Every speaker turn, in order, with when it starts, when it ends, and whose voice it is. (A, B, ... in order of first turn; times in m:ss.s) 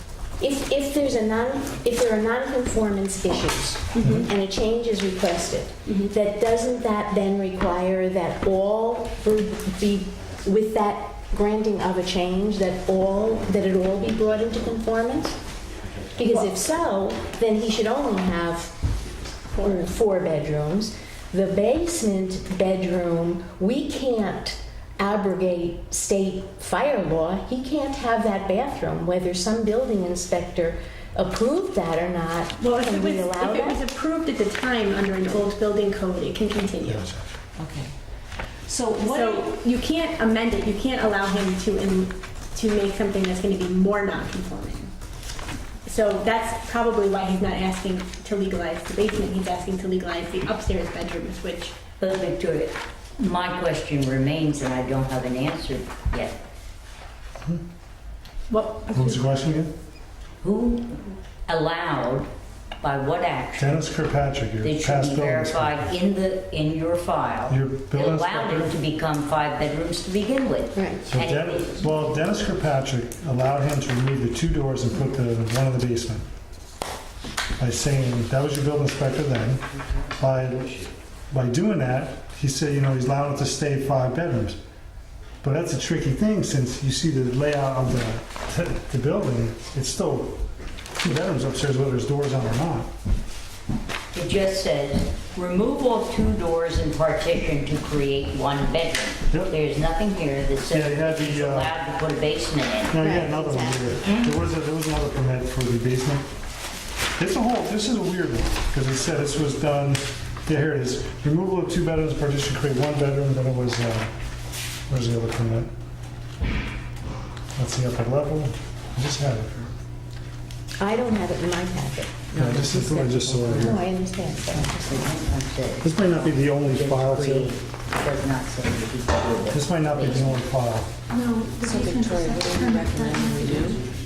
0:00.4-0:15.4 A
0:03.9-0:04.3 B
0:04.0-0:04.3 C
0:16.1-0:18.7 A
0:19.5-0:19.9 B
0:19.6-0:33.8 A
0:32.6-0:37.0 B
0:36.8-0:37.3 C
0:37.6-0:37.9 D
0:38.7-0:39.5 D
0:39.0-0:44.9 B
0:45.8-0:51.7 B
0:52.0-0:56.4 E
0:58.5-0:59.2 B
0:58.9-0:59.7 C
1:00.4-1:02.3 E
1:02.8-1:03.8 E
1:03.6-1:05.8 C
1:04.6-1:12.3 E
1:07.5-1:08.8 C
1:10.7-1:11.0 A
1:11.1-1:16.2 C
1:17.6-1:19.6 C
1:20.2-1:20.8 C
1:21.3-1:24.6 C
1:25.4-1:30.4 C
1:31.0-1:32.9 C
1:34.1-1:43.2 E
1:40.7-1:41.8 C
1:42.9-1:46.2 C
1:43.0-1:43.9 A
1:44.0-1:44.3 E
1:47.2-1:54.1 C
1:54.9-1:55.7 C
1:57.6-1:59.7 C
2:00.8-2:04.8 A
2:02.3-2:03.8 C
2:03.4-2:03.8 E
2:04.5-2:10.4 E
2:05.8-2:07.5 C
2:09.5-2:10.9 C
2:11.1-2:13.7 F
2:11.6-2:13.8 D